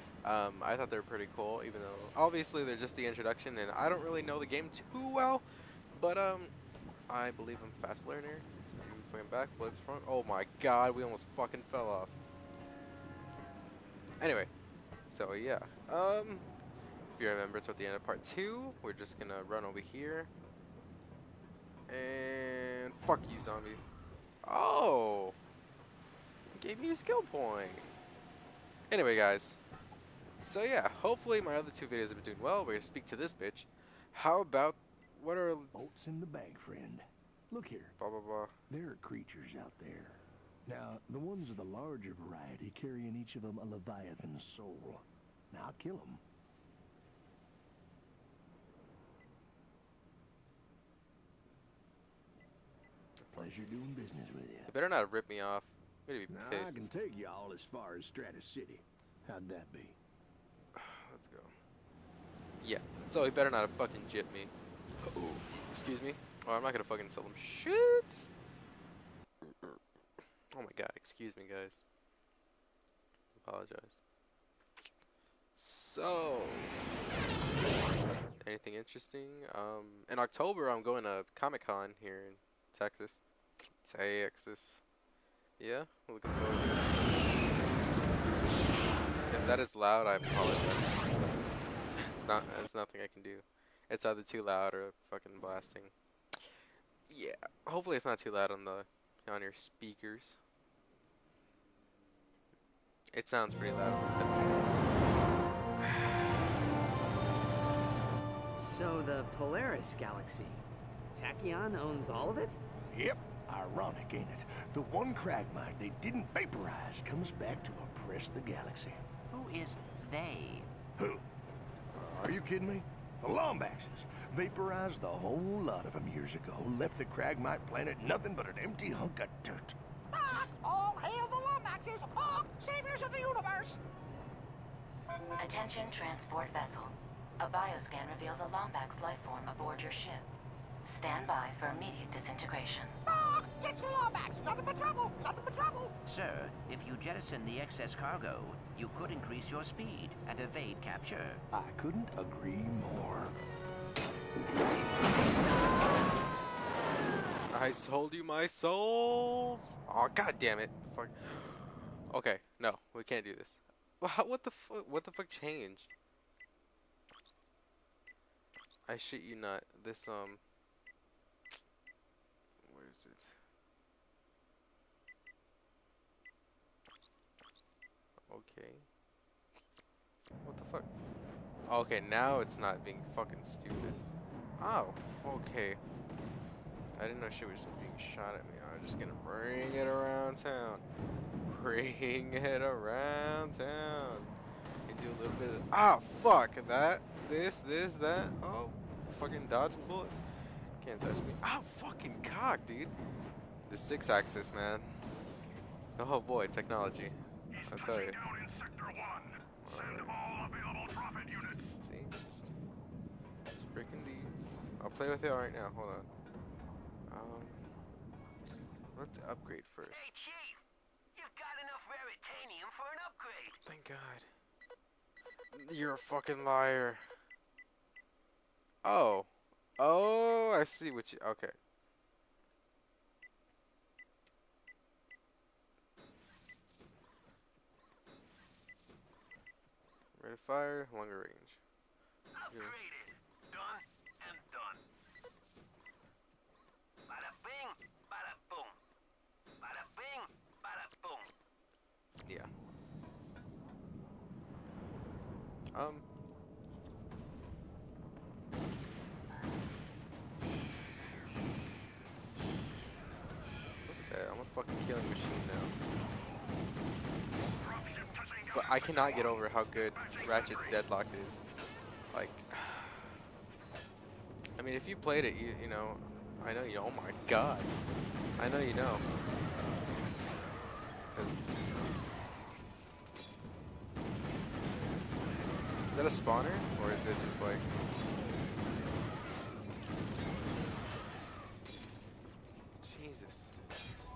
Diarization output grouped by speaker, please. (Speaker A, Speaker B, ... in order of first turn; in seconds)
Speaker A: 0.2-6.5, 7.1-12.2, 14.2-14.5, 15.1-16.5, 17.1-20.3, 21.9-23.8, 24.4-25.4, 26.5-27.9, 28.9-29.6, 30.4-35.8, 38.0-38.5, 53.2-53.6, 54.7-56.9, 60.7-61.5, 62.6-64.5, 65.0-68.3, 69.4-69.8, 70.5-71.8, 73.4-74.0, 75.6-76.8, 78.4-83.2, 83.8-84.8, 85.6-87.5, 89.3-91.0, 92.0-95.9, 97.1-100.4, 103.1-104.8, 105.8-106.1, 157.5-165.9, 168.9-170.4, 172.6-173.3, 178.3-178.8, 180.4-180.9, 181.7-184.0, 184.6-185.8, 186.9-190.8, 191.4-194.3, 194.9-200.2, 200.8-202.9, 203.7-204.9, 206.0-208.2, 209.6-210.2, 211.8-212.5, 213.6-216.1, 217.1-217.6, 218.9-220.0, 223.6-224.3, 225.5-227.0, 228.8-231.6, 240.2-241.6, 255.7-256.0, 263.9-265.7, 268.5-271.4, 272.1-273.2, 274.6-277.7, 278.4-279.0, 281.1-281.4, 285.9-287.6, 292.8-293.5
Speaker B: 35.7-38.0, 38.7-46.2, 53.4-54.8, 56.3-60.0, 112.9-119.0, 121.0-121.2, 121.9-129.8, 151.5-153.3
Speaker C: 108.6-112.6
Speaker D: 119.3-120.7, 146.0-151.4
Speaker E: 130.1-133.8, 143.1-145.9
Speaker F: 135.4-140.3, 140.8-143.0
Speaker G: 207.5-211.8, 267.6-270.8
Speaker H: 219.8-220.6, 221.1-223.6, 242.3-244.8, 247.1-248.8, 249.6-251.3